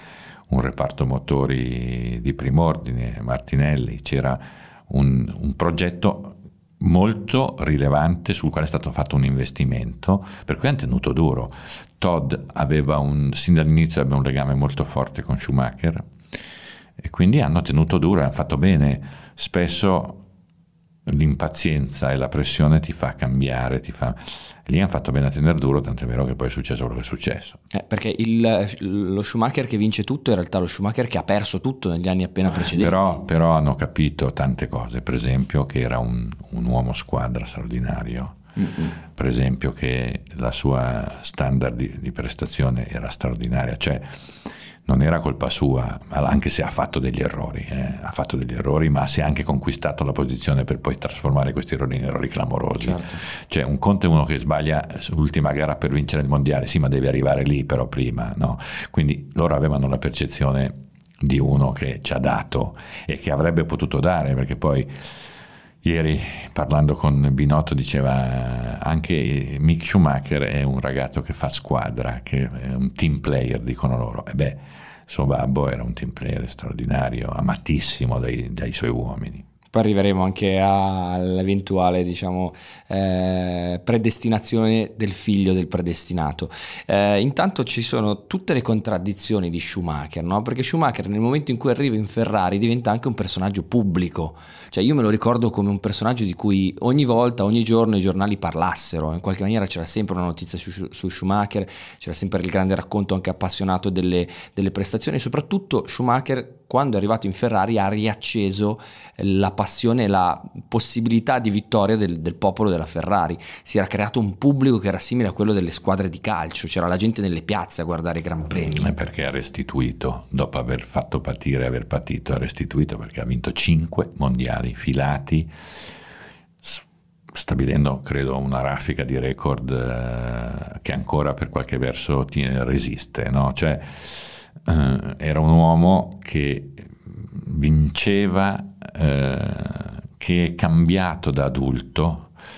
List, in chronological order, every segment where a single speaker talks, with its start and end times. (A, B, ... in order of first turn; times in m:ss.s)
0:00.5-0:16.1 A
0:17.0-0:20.2 A
0:21.1-0:27.6 A
0:27.7-0:33.2 B
0:32.7-0:38.4 A
0:38.6-0:38.9 B
0:39.0-0:44.2 A
0:44.8-1:05.2 A
0:52.8-0:53.2 B
1:05.8-1:19.5 A
1:19.7-1:58.9 B
1:58.6-2:05.5 A
2:06.6-2:22.3 A